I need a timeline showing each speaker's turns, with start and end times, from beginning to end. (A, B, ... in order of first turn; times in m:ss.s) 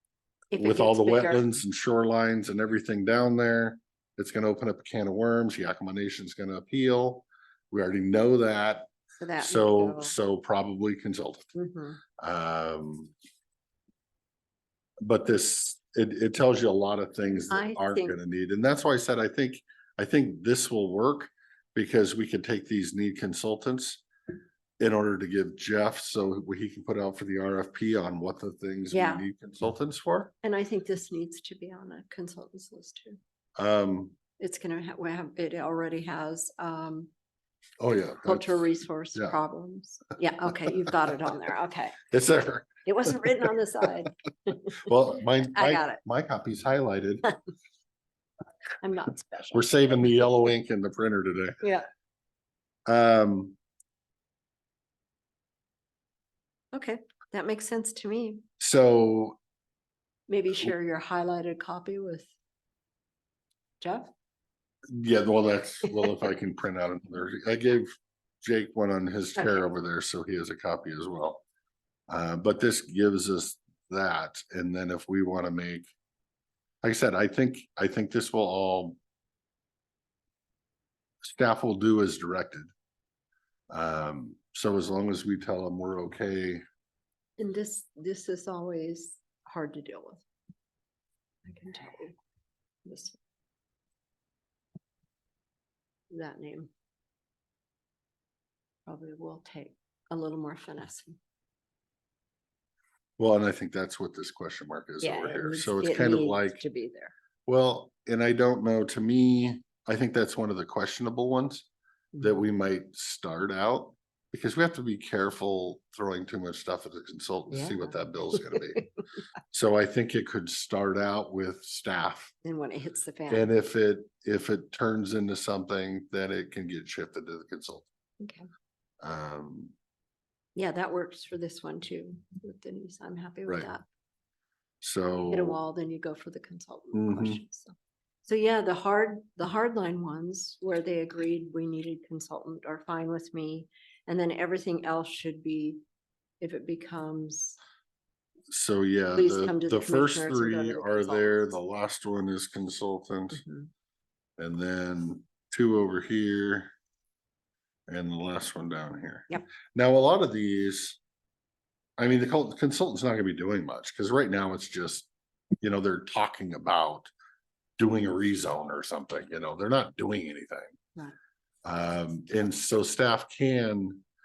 0:00.5-0:01.4 A
0:00.6-0:11.5 B
0:09.2-0:10.2 A
0:11.5-0:12.0 A
0:12.2-0:13.1 B
0:15.0-0:24.0 B
0:17.5-0:18.2 A
0:24.8-0:30.3 B
0:28.9-0:29.2 A
0:30.4-0:33.2 A
0:33.6-0:34.1 B
0:34.4-0:37.1 A
0:37.8-0:39.4 B
0:38.2-0:42.1 A
0:42.1-0:42.8 B
0:42.8-0:46.0 A
0:44.8-0:47.3 B
0:48.8-0:49.7 A
0:49.5-0:51.6 B
0:51.6-0:51.9 A
0:52.9-0:53.6 B
0:56.7-0:58.4 A
0:58.6-0:59.4 B
1:00.3-1:02.3 A
1:03.8-1:04.1 A
1:04.9-1:11.4 B
1:12.1-1:15.9 B
1:16.8-1:19.0 B
1:21.2-1:22.7 B
1:23.7-1:26.6 B
1:27.4-1:30.2 A
1:31.4-1:32.2 A
1:32.8-1:33.2 A
1:36.1-1:36.7 A
1:38.9-1:41.2 A
1:43.2-1:46.6 B
1:45.0-1:47.1 A
1:47.5-1:51.6 B
1:52.1-1:52.4 A
1:52.2-1:58.8 B
1:57.5-1:58.8 A
1:59.5-2:02.3 B
2:02.4-2:03.5 A
2:03.3-2:07.9 B
2:08.2-2:08.4 A
2:09.0-2:09.7 B
2:10.6-2:13.8 A
2:14.8-2:15.6 B
2:15.3-2:17.7 A
2:16.9-2:17.4 B
2:18.2-2:25.8 A
2:26.4-2:27.6 A
2:28.5-2:33.4 B
2:29.1-2:31.6 A
2:33.3-2:33.7 A
2:34.4-2:36.7 B
2:37.9-2:41.0 B
2:42.0-2:45.1 B
2:45.6-2:47.1 B
2:47.8-2:50.7 B
2:51.6-2:54.0 B